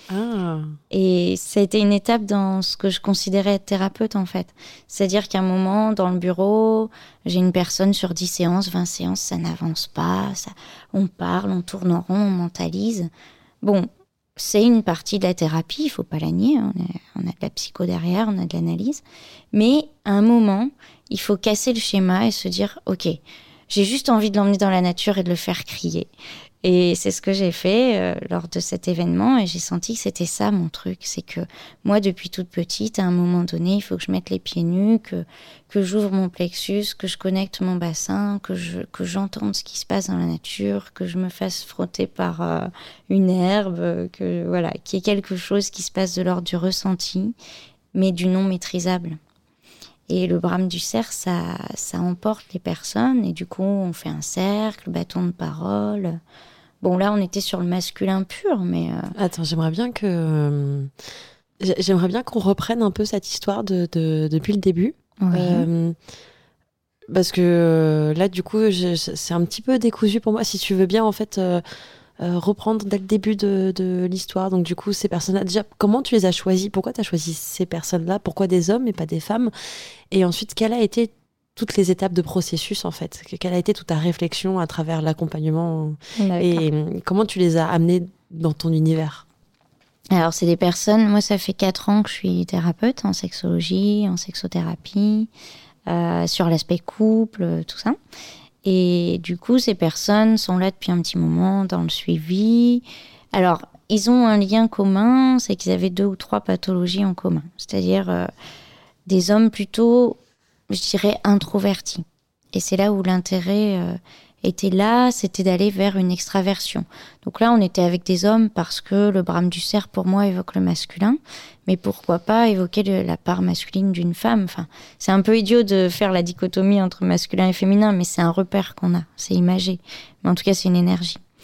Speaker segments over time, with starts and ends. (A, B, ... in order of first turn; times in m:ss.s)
0:00.1-0:00.8 A
0:00.9-0:13.1 B
0:13.6-0:23.2 B
0:23.7-0:26.1 B
0:26.6-0:47.4 B
0:47.9-0:49.2 B
0:50.1-0:56.2 B
0:56.8-0:59.1 B
0:59.1-1:00.9 A
1:01.6-1:06.0 A
1:05.2-1:05.7 B
1:07.1-1:11.6 A
1:12.2-1:19.5 A
1:20.1-1:29.2 A
1:26.2-1:26.7 B
1:30.1-1:35.3 B
1:35.9-1:38.0 B
1:38.6-1:48.3 B
1:49.1-1:50.2 B
1:50.7-2:11.2 B